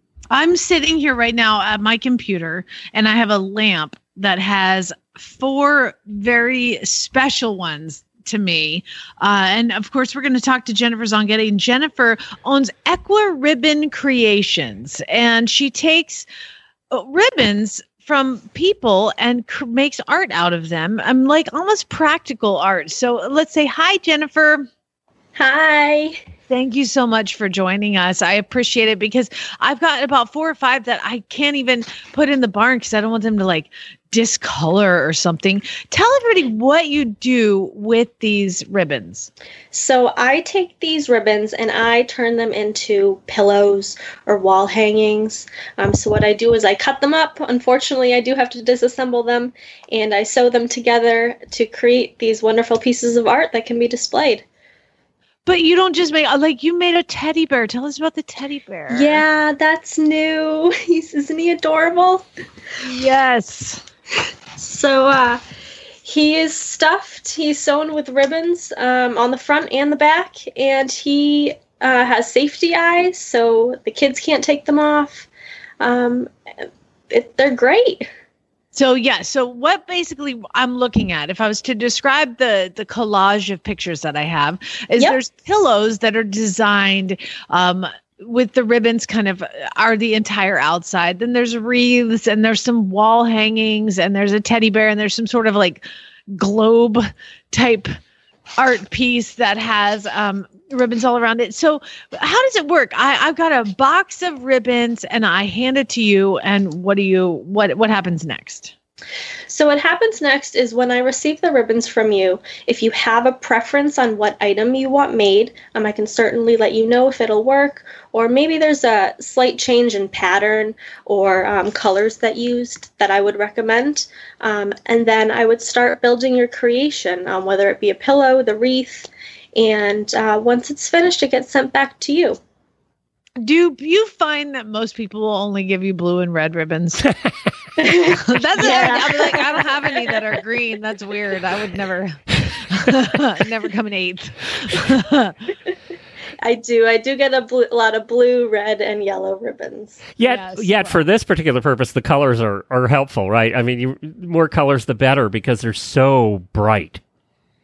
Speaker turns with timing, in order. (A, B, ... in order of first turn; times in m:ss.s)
0:00.3-0:16.3 A
0:16.9-0:24.7 A
0:25.4-0:26.2 B
0:26.5-0:39.3 A
0:39.7-0:54.4 B
0:55.4-0:59.2 A
0:58.9-1:02.2 B
1:02.8-1:03.8 A
1:04.6-1:05.4 B
1:06.0-1:15.3 B
1:15.8-1:16.3 B
1:17.1-1:18.1 B
1:18.7-1:37.9 A
1:38.6-1:48.7 A
1:49.5-2:12.4 B
2:13.4-2:17.1 A
2:17.8-2:20.1 B
2:18.2-2:25.4 A
2:26.4-2:30.0 B
2:30.2-2:37.0 C
2:30.2-2:31.0 A